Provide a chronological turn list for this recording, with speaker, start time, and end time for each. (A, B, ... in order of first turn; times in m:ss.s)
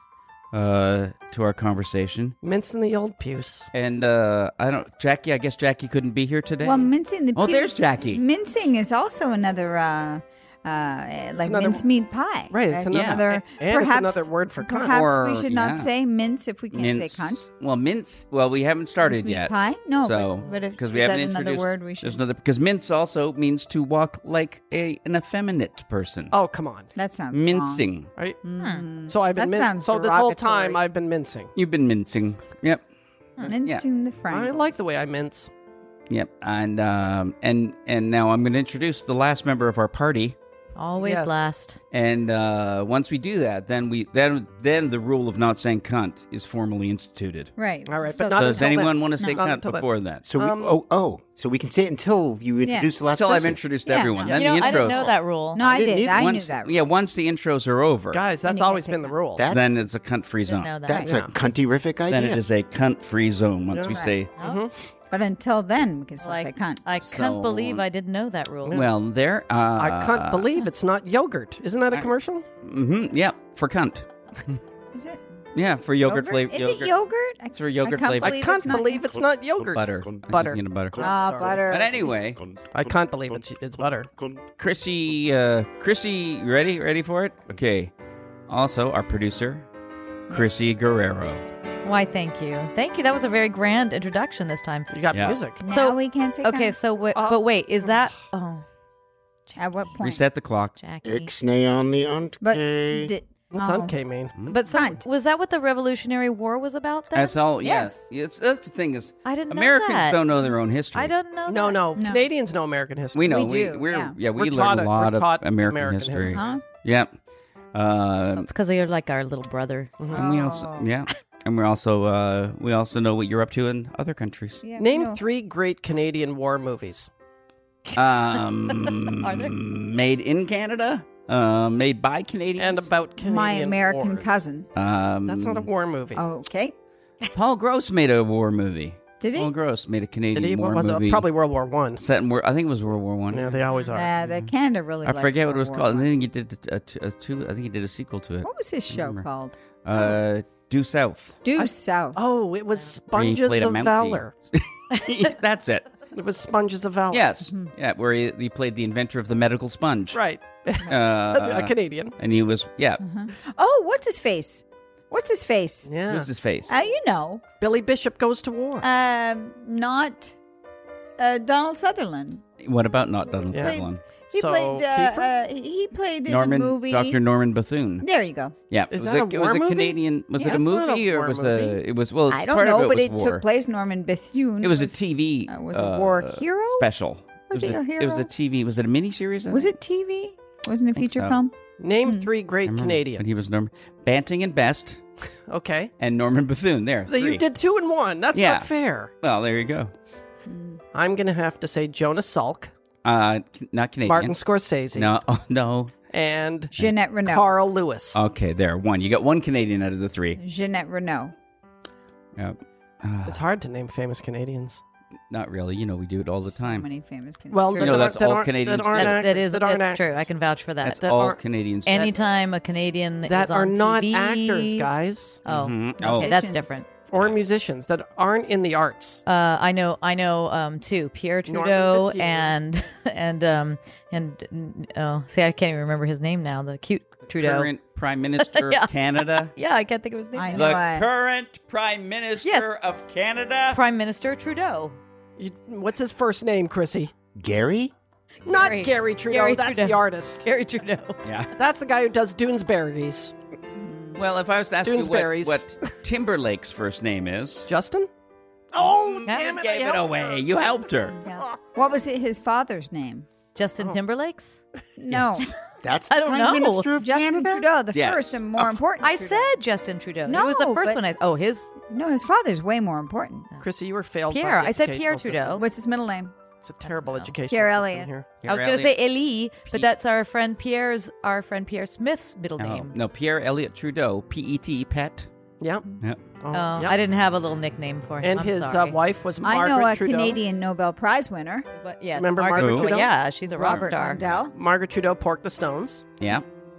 0:00.5-0:02.4 A
0:02.4-0:03.7 B
0:03.7-0:08.2 A
0:06.6-0:17.4 C
0:11.4-0:11.8 B
0:12.5-0:15.0 B
0:12.9-0:13.2 A
0:14.9-0:15.9 A
0:16.7-0:26.4 A
0:19.0-0:22.2 C
0:26.3-0:26.9 B
0:27.0-0:27.9 C
0:27.3-0:28.1 A
0:28.4-0:30.8 C
0:28.6-0:28.8 D
0:29.1-0:31.5 B
0:31.6-0:32.8 A
0:33.4-0:33.8 A
0:33.4-0:34.8 C
0:34.3-0:35.5 B
0:36.1-0:40.4 A
0:40.8-0:41.8 D
0:41.0-0:41.4 B
0:41.9-0:47.6 A
0:47.6-0:49.4 C
0:47.9-0:50.8 B
0:48.2-0:50.3 A
0:50.2-0:53.6 E
0:52.6-0:52.9 C
0:53.2-0:55.2 A
0:53.8-0:56.7 C
0:54.2-0:55.7 D
0:55.6-0:56.2 E
0:56.1-0:58.3 A
0:58.1-0:59.5 B
0:58.4-0:59.2 C
0:59.4-0:59.7 E
0:59.5-1:00.8 A
1:00.4-1:01.1 D
1:00.8-1:02.4 E
1:00.9-1:01.4 B
1:02.1-1:04.3 A
1:03.7-1:04.7 B
1:04.4-1:04.6 D
1:05.1-1:06.8 C
1:06.2-1:08.8 D
1:07.0-1:07.8 A
1:08.7-1:10.5 A
1:09.8-1:12.4 B
1:12.6-1:14.1 A
1:14.9-1:15.2 C
1:15.6-1:16.9 A
1:16.0-1:19.1 C
1:17.5-1:18.6 A
1:18.2-1:21.6 B
1:19.7-1:21.1 A
1:21.0-1:22.2 C
1:21.7-1:22.4 A
1:22.7-1:24.1 B
1:24.6-1:27.9 A
1:28.5-1:29.6 A
1:30.3-1:31.4 A
1:31.8-1:34.9 D
1:34.9-1:35.6 B
1:35.1-1:35.4 A
1:35.6-1:36.8 C
1:35.6-1:38.6 D
1:37.2-1:38.1 B
1:39.5-1:40.0 D
1:39.6-1:40.2 C
1:40.0-1:40.8 A
1:40.8-1:41.3 D
1:41.0-1:43.1 E
1:42.4-1:44.0 C
1:43.5-1:44.4 B
1:44.5-1:45.0 C
1:44.5-1:47.4 D
1:47.1-1:51.1 A
1:47.6-1:48.1 C
1:49.2-1:51.9 D
1:51.5-1:53.3 B
1:52.0-1:52.3 C
1:53.2-1:57.1 A
1:53.2-1:54.2 C
1:54.4-1:56.5 B
1:56.2-1:56.6 C
1:57.7-1:58.5 A
1:58.4-1:59.9 D
2:00.0-2:00.2 B
2:00.1-2:04.6 A
2:00.1-2:00.9 C
2:04.6-2:05.2 C
2:04.8-2:07.1 B
2:07.9-2:12.9 A
2:08.8-2:09.5 D
2:12.6-2:14.3 B
2:13.2-2:14.7 C
2:14.8-2:15.7 A
2:15.3-2:16.2 B
2:16.2-2:16.7 C
2:17.3-2:21.3 A
2:19.2-2:19.5 C
2:20.4-2:22.0 B
2:22.0-2:23.6 A
2:23.3-2:24.1 B
2:23.7-2:24.0 D
2:23.9-2:26.1 C
2:25.0-2:29.2 A
2:28.4-2:30.1 C
2:29.8-2:31.4 A
2:31.4-2:32.2 C
2:31.6-2:34.3 B
2:33.1-2:35.9 A
2:36.1-2:37.2 B
2:37.1-2:40.2 A
2:37.5-2:37.7 C
2:40.1-2:42.1 B
2:40.8-2:43.0 A
2:43.0-2:45.9 C
2:45.9-2:46.3 B
2:46.1-2:46.7 A
2:46.7-2:47.4 C
2:47.6-2:48.9 B
2:48.8-2:50.4 C
2:51.2-2:52.4 C
2:52.6-2:54.0 A
2:53.5-2:53.8 B
2:53.5-2:57.2 C
2:54.3-2:55.3 B
2:56.3-2:58.1 A
2:58.0-2:58.5 C
2:58.7-3:03.4 A
2:58.9-3:01.8 B
3:00.4-3:00.7 C
3:02.3-3:06.9 C
3:04.6-3:09.7 A
3:07.5-3:08.3 C
3:09.5-3:11.5 C
3:11.0-3:11.4 A
3:11.8-3:13.4 B
3:12.0-3:12.3 C
3:12.7-3:15.0 A
3:15.5-3:15.9 B
3:16.0-3:17.4 A
3:17.1-3:19.1 B
3:18.3-3:19.9 A
3:20.5-3:20.8 C
3:20.9-3:22.7 B
3:23.0-3:24.4 A
3:24.0-3:25.1 B
3:24.9-3:25.9 A
3:26.1-3:28.2 B
3:26.7-3:27.5 C
3:28.1-3:30.4 A
3:30.4-3:31.3 C
3:32.4-3:33.4 A
3:33.3-3:34.8 B
3:35.3-3:36.9 A
3:36.5-3:38.1 C
3:37.5-3:40.3 B
3:37.8-3:39.2 A
3:38.9-3:41.0 D
3:40.8-3:42.1 A
3:41.0-3:41.4 B
3:41.8-3:44.9 D
3:43.3-3:45.4 B
3:45.4-3:46.9 D
3:45.5-3:46.4 A
3:46.0-3:46.8 C
3:47.1-3:49.2 B
3:49.3-3:57.7 D
3:51.5-3:52.5 B
3:57.3-3:59.5 A
3:58.4-4:00.8 D
4:00.3-4:01.1 C
4:00.5-4:03.8 A
4:02.4-4:02.7 D
4:03.7-4:05.0 D
4:05.4-4:07.1 B
4:07.4-4:07.9 E
4:08.4-4:11.2 D
4:08.5-4:10.5 B
4:11.2-4:11.5 A
4:11.6-4:13.3 B
4:13.8-4:14.2 C
4:14.2-4:17.7 A
4:14.8-4:15.7 B
4:17.7-4:18.1 B
4:18.7-4:20.4 B
4:19.2-4:19.6 D
4:19.3-4:21.2 A
4:21.2-4:23.3 C
4:23.6-4:24.6 D
4:25.0-4:25.5 C
4:25.8-4:27.6 E
4:26.1-4:26.9 D
4:27.0-4:29.6 C
4:27.9-4:28.7 A
4:29.0-4:31.7 D
4:30.3-4:31.0 C
4:31.9-4:33.5 C
4:33.6-4:35.6 B
4:34.3-4:35.6 D
4:35.6-4:36.3 C
4:36.6-4:38.3 B
4:37.0-4:37.3 D
4:37.5-4:38.1 C
4:38.4-4:39.0 A
4:38.5-4:43.0 D
4:39.6-4:39.9 A
4:42.6-4:45.3 A
4:45.6-4:45.9 B
4:46.4-4:47.0 B
4:46.5-4:49.0 D
4:48.2-4:50.4 B
4:49.4-4:51.7 C
4:51.8-4:54.4 D
4:52.1-4:53.2 B
4:52.6-4:52.9 A
4:53.4-4:54.5 C
4:54.5-4:56.1 B
4:56.2-4:56.4 A